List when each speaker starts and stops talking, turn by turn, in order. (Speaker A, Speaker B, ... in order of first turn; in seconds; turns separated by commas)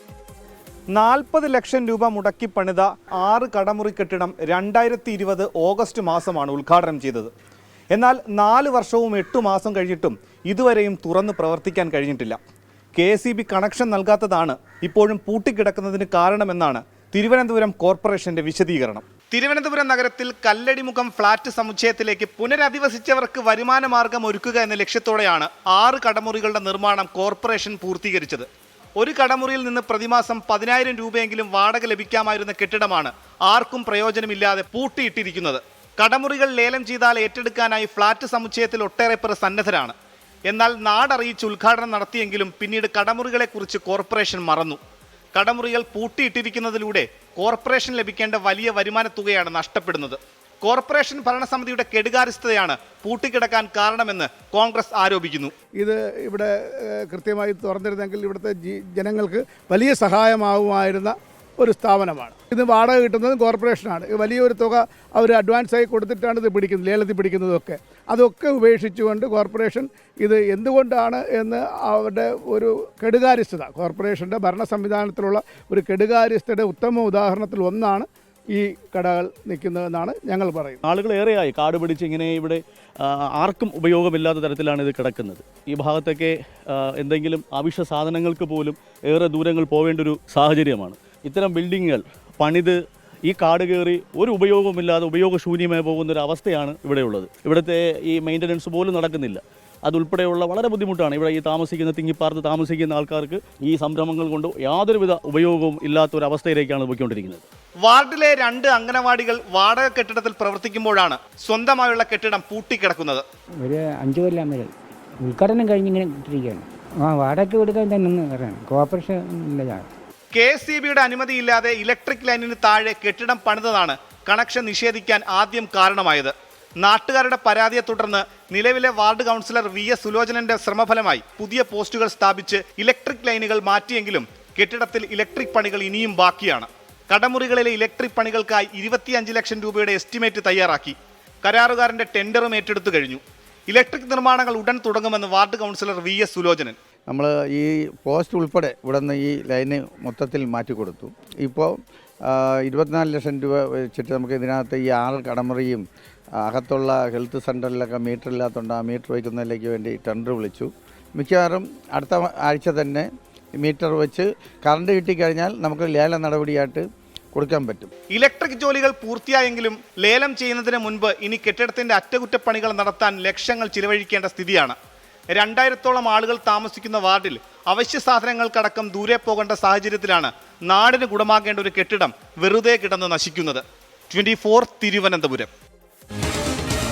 Speaker A: 0.9-7.3, Speaker A: 7.9-12.4, Speaker A: 13.0-40.0, Speaker A: 40.5-44.8, Speaker A: 45.4-55.5, Speaker B: 55.8-80.8, Speaker C: 80.8-107.4, Speaker A: 107.8-113.2, Speaker D: 113.6-119.9, Speaker A: 120.3-146.8, Speaker E: 147.1-151.7, Speaker E: 152.3-155.8, Speaker E: 156.4-163.1, Speaker E: 163.6-167.9, Speaker A: 168.1-174.8, Speaker A: 175.3-185.5